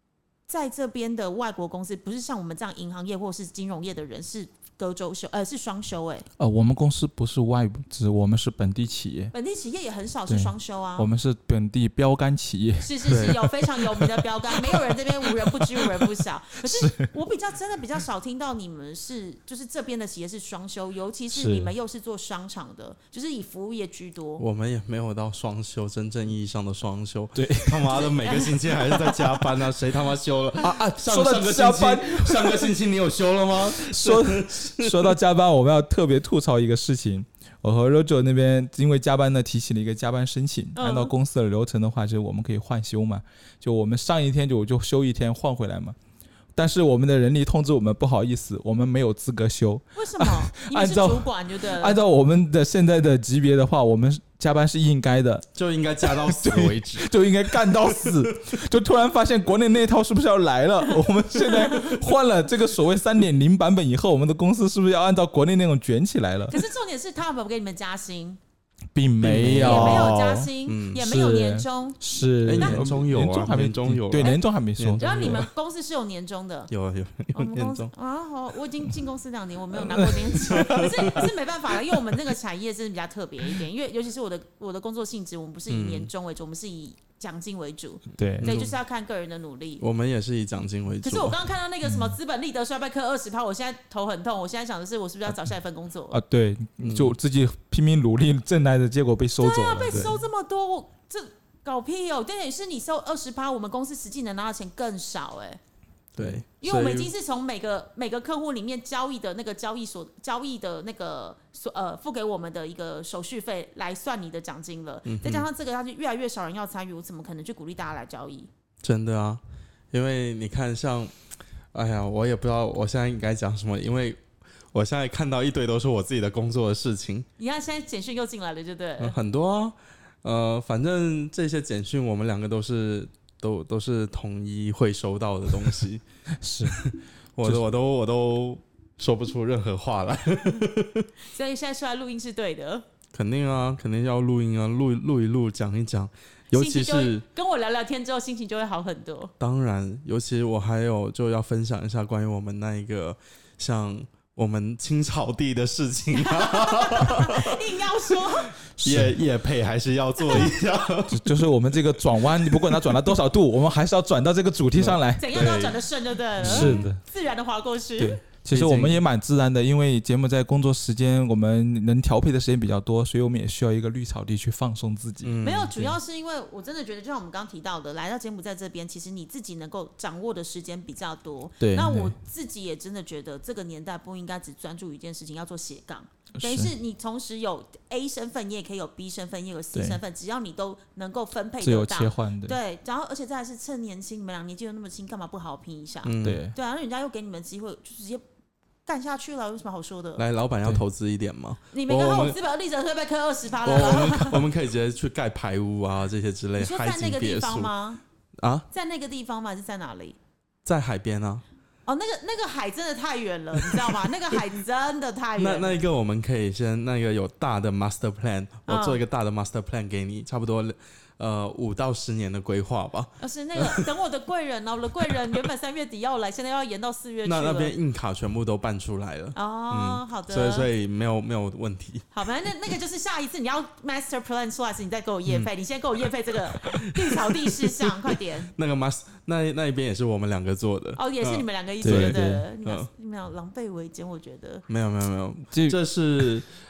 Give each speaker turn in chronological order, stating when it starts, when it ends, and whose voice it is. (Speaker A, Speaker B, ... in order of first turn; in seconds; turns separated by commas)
Speaker A: 0.5-6.3, Speaker B: 6.4-9.3, Speaker A: 9.3-11.1, Speaker B: 10.3-17.1, Speaker A: 12.8-24.4, Speaker C: 13.1-13.4, Speaker B: 21.3-21.7, Speaker C: 24.4-35.1, Speaker B: 27.4-28.0, Speaker A: 27.9-29.4, Speaker B: 30.6-32.8, Speaker B: 33.7-46.0, Speaker A: 40.8-41.1, Speaker B: 46.6-55.5, Speaker A: 50.0-52.0, Speaker C: 55.5-57.1, Speaker B: 56.0-66.6, Speaker A: 66.5-68.4, Speaker B: 68.9-75.5, Speaker C: 69.2-71.0, Speaker A: 69.4-72.0, Speaker C: 72.4-75.5, Speaker A: 72.6-72.8, Speaker A: 75.0-76.7, Speaker C: 76.7-77.9, Speaker A: 77.3-89.8, Speaker B: 79.9-81.2, Speaker C: 80.3-81.2, Speaker C: 85.7-86.1, Speaker B: 88.2-88.6, Speaker C: 88.4-88.8, Speaker C: 89.8-91.4, Speaker A: 91.0-96.2, Speaker B: 91.8-92.2, Speaker B: 96.1-100.2, Speaker C: 96.8-97.1, Speaker A: 99.4-105.6, Speaker C: 99.9-100.2, Speaker C: 106.2-107.1, Speaker A: 106.6-118.5, Speaker C: 115.1-115.5, Speaker C: 118.8-119.4, Speaker C: 119.9-121.1, Speaker C: 121.7-124.2, Speaker C: 124.7-127.3, Speaker A: 127.4-129.2, Speaker C: 129.0-136.0, Speaker B: 136.4-136.8, Speaker C: 136.7-141.1, Speaker A: 141.3-142.9, Speaker C: 143.1-147.2, Speaker A: 146.5-149.3, Speaker C: 149.4-157.7, Speaker A: 156.1-158.6, Speaker C: 158.2-161.3, Speaker B: 158.8-159.2, Speaker B: 161.1-165.3, Speaker C: 162.3-162.9, Speaker C: 164.8-165.8, Speaker A: 165.2-168.2, Speaker C: 166.4-166.9, Speaker B: 166.4-167.0, Speaker B: 168.0-176.0, Speaker C: 168.5-169.0, Speaker C: 175.2-175.7, Speaker A: 175.4-198.2, Speaker B: 181.6-182.2, Speaker B: 186.4-186.7, Speaker B: 189.7-190.0, Speaker B: 191.6-192.6, Speaker C: 196.1-196.4, Speaker B: 196.2-196.6, Speaker A: 198.9-200.2, Speaker C: 200.2-202.4, Speaker A: 201.7-204.5, Speaker C: 203.7-207.7, Speaker A: 206.6-208.0, Speaker C: 208.4-208.7, Speaker A: 208.7-210.2, Speaker C: 210.7-211.4, Speaker A: 211.9-215.8, Speaker C: 215.4-223.9, Speaker A: 218.7-219.0, Speaker A: 223.2-227.8, Speaker C: 227.2-232.1, Speaker A: 229.3-230.7, Speaker A: 232.1-238.5, Speaker C: 236.6-242.9, Speaker A: 241.0-244.6, Speaker B: 241.8-242.5, Speaker C: 244.7-246.5, Speaker B: 245.5-245.8